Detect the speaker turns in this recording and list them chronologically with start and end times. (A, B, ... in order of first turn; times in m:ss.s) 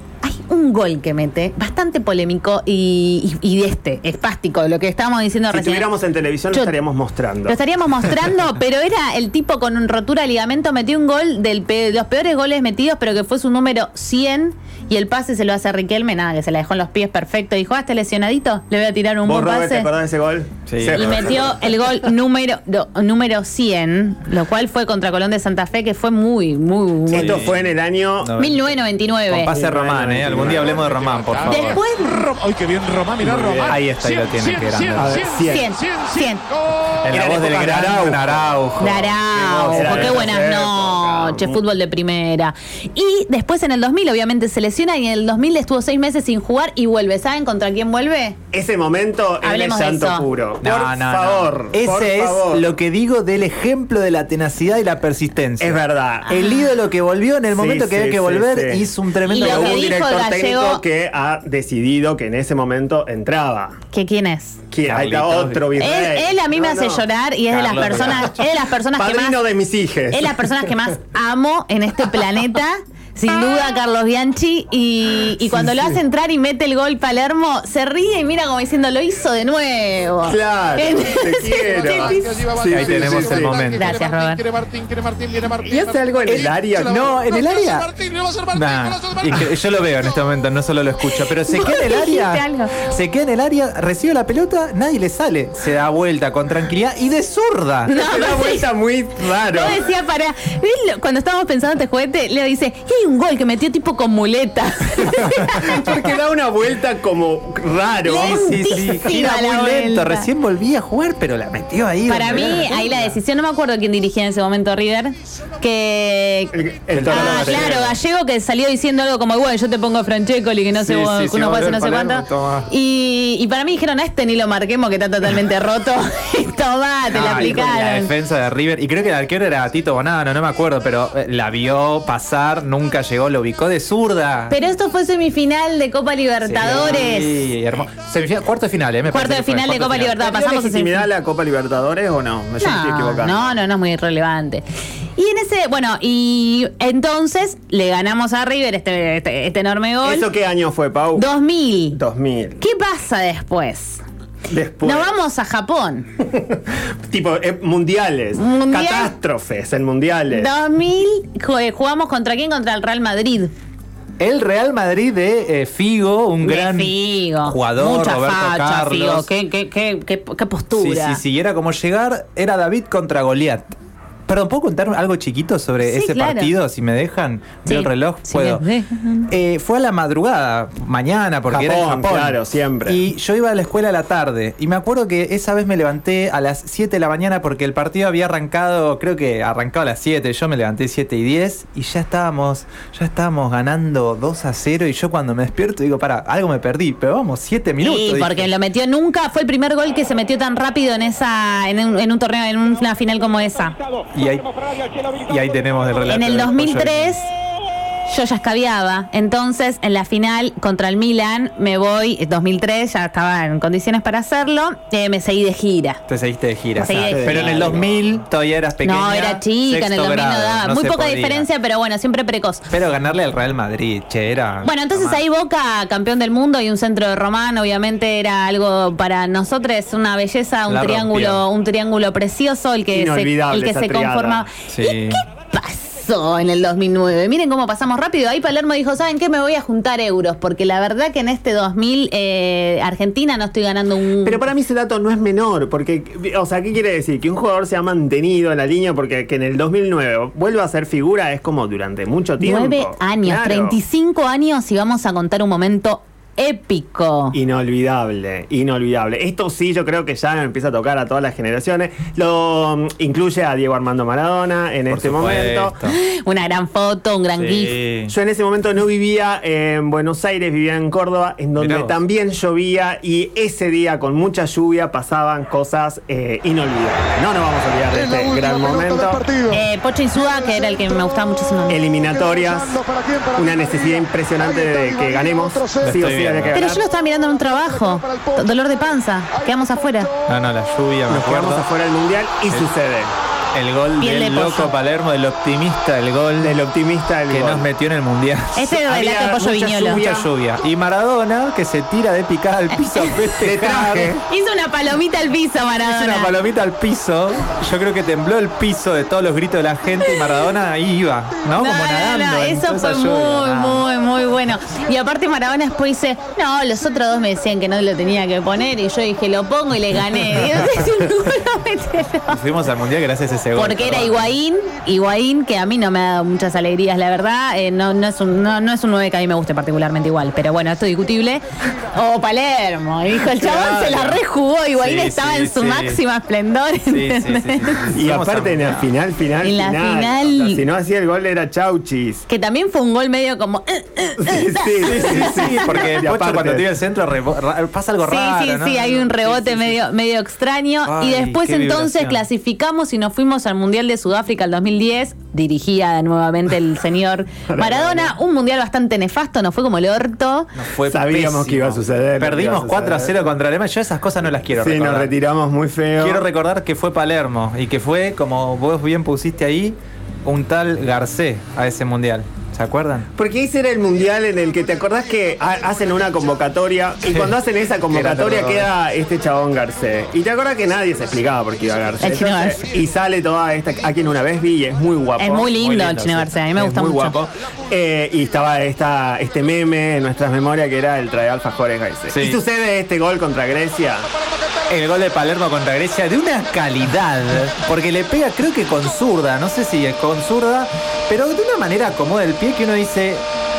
0:00.2-0:05.9 A
0:05.5-0:07.6 B
0:07.5-0:19.9 A
0:19.2-0:21.6 B
0:20.7-0:21.5 C
0:20.9-0:27.5 A
0:27.1-0:28.3 B
0:27.1-0:28.7 C
0:28.4-0:29.5 A
0:29.3-0:31.8 C
0:29.5-0:30.9 B
0:30.5-0:37.0 D
0:31.5-0:32.3 A
0:33.2-0:33.8 B
0:33.6-0:35.2 C
0:34.9-0:35.6 B
0:35.4-0:36.4 A
0:37.0-0:40.3 C
0:37.1-0:38.3 B
0:38.8-0:48.4 A
0:39.7-0:41.6 B
0:48.5-0:52.7 B
0:49.4-0:50.2 A
0:50.6-0:59.9 C
0:55.6-0:56.3 B
0:56.3-0:56.7 A
0:57.5-1:03.8 B
0:59.3-1:00.8 A
1:03.9-1:04.6 A
1:04.7-1:07.0 B
1:04.9-1:05.7 C
1:05.8-1:09.4 A
1:07.5-1:08.4 C
1:09.0-1:10.6 B
1:10.1-1:22.5 A
1:15.4-1:16.0 B
1:20.2-1:23.6 B
1:21.6-1:26.8 D
1:22.7-1:23.9 C
1:23.7-1:24.4 A
1:25.6-1:27.2 B
1:26.8-1:27.9 C
1:27.9-1:29.2 D
1:28.4-1:37.9 C
1:31.2-1:32.8 A
1:37.8-1:38.7 A
1:37.9-1:39.8 B
1:39.5-1:45.8 A
1:45.4-1:48.8 B
1:48.0-1:50.3 A
1:48.2-1:53.1 C
1:52.1-2:08.1 A
1:52.4-1:52.9 B
1:56.5-1:57.7 B
1:56.9-1:58.0 C
2:00.8-2:02.7 C
2:07.1-2:14.6 C
2:14.5-2:17.4 A
2:16.4-2:20.2 C
2:16.6-2:17.0 B
2:19.1-2:21.1 A
2:20.1-2:23.5 B
2:22.6-2:24.6 A
2:25.2-2:30.3 A
2:30.0-2:31.3 B
2:31.1-2:32.0 A
2:31.9-2:32.6 B
2:32.6-2:34.0 A
2:34.5-2:35.1 B
2:34.8-2:36.1 A
2:36.3-2:40.5 B
2:38.4-2:39.1 A
2:40.3-2:43.5 A
2:44.2-2:49.3 C
2:46.4-2:51.2 A
2:50.7-2:53.7 C
2:54.3-2:58.6 C
2:55.8-2:56.5 A
2:57.6-2:59.3 A
2:59.3-3:18.5 C
3:01.5-3:03.0 B
3:17.8-3:23.8 A
3:24.1-3:27.2 C
3:26.1-3:27.3 A
3:28.1-3:36.0 A
3:36.1-3:41.5 C
3:36.8-3:37.8 A
3:37.1-3:37.9 B
3:38.8-3:42.7 A
3:42.7-3:45.2 C
3:44.6-4:04.4 A
3:50.7-3:51.5 C
3:52.9-3:54.5 B
3:54.7-3:55.2 C
4:04.2-4:13.8 B
4:12.4-4:17.4 A
4:17.3-4:25.8 B
4:24.9-4:26.0 C
4:25.9-4:27.8 A
4:27.3-4:28.1 C
4:28.1-4:39.3 B
4:31.6-4:32.0 C
4:39.5-4:41.8 A
4:41.7-4:46.8 B
4:45.8-4:46.6 C
4:46.5-4:50.1 A
4:50.3-4:51.7 C
4:51.1-4:53.1 B
4:53.5-4:56.6 C
4:54.0-4:54.7 A
4:56.4-4:57.7 B
4:57.3-4:58.8 C
4:58.6-5:00.0 A
4:58.8-5:00.3 B
4:59.7-5:04.2 C
5:02.9-5:03.2 A
5:03.4-5:04.2 B
5:04.3-5:06.4 A
5:05.8-5:13.8 C
5:11.6-5:22.4 A
5:20.3-5:20.8 C
5:22.3-5:24.3 C
5:23.6-5:37.9 A
5:33.4-5:33.9 B
5:33.5-5:34.1 C
5:34.8-5:36.0 C
5:36.9-5:38.9 C
5:37.9-5:42.2 B
5:39.4-5:40.6 A
5:42.3-5:46.0 A
5:44.2-5:46.7 B
5:44.8-5:49.8 C
5:48.0-6:00.5 A
5:50.8-5:52.2 C
5:57.5-5:58.1 B
6:00.5-6:05.1 C
6:00.9-6:03.2 B
6:04.5-6:06.3 B
6:06.0-6:13.1 C
6:13.2-6:25.6 B
6:17.1-6:17.3 C
6:17.9-6:18.7 C
6:22.0-6:22.6 A
6:25.2-6:27.2 A
6:25.6-6:26.4 C
6:26.6-6:34.1 B
6:32.1-6:32.4 C
6:34.7-6:43.2 C